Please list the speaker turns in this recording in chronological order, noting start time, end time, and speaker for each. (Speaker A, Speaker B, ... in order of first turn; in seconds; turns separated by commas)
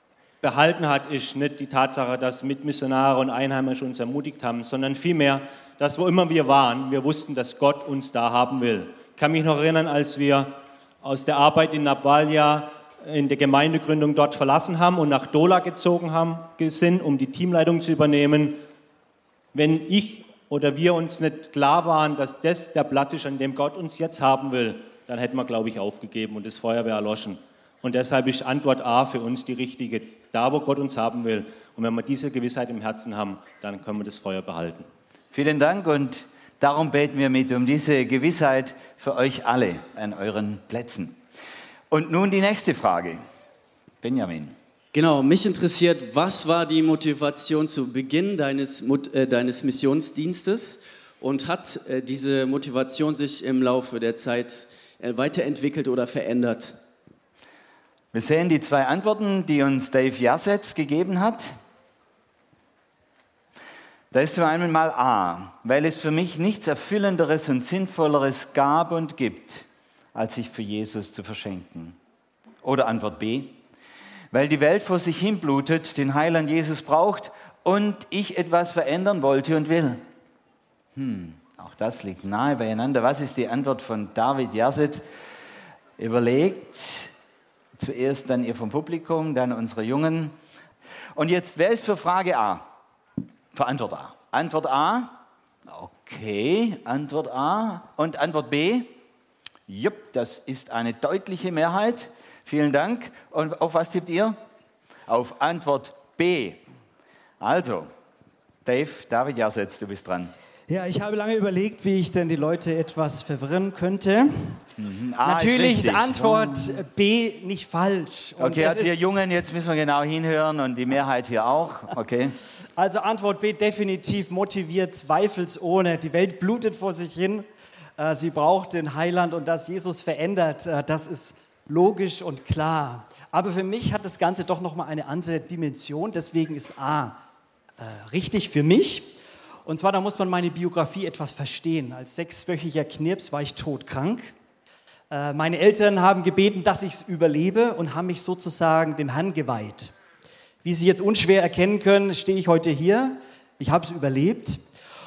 Speaker A: 0.4-18.6, Speaker A: 19.5-34.9, Speaker B: 35.3-41.2, Speaker B: 41.9-43.2, Speaker B: 44.0-44.5, Speaker C: 44.9-56.8, Speaker B: 58.1-61.5, Speaker B: 64.1-72.0, Speaker B: 72.6-73.5, Speaker B: 74.3-80.0, Speaker B: 81.0-85.0, Speaker B: 86.0-87.1, Speaker B: 87.8-90.3, Speaker B: 91.1-92.7, Speaker B: 93.5-98.9, Speaker B: 99.7-104.4, Speaker B: 105.1-106.6, Speaker B: 107.4-107.9, Speaker B: 108.6-110.3, Speaker D: 110.7-114.6, Speaker B: 114.8-116.8, Speaker D: 115.2-119.2, Speaker B: 118.4-122.4, Speaker D: 122.8-127.5, Speaker D: 128.0-137.2, Speaker D: 137.8-144.3, Speaker D: 145.1-149.9, Speaker D: 150.6-154.6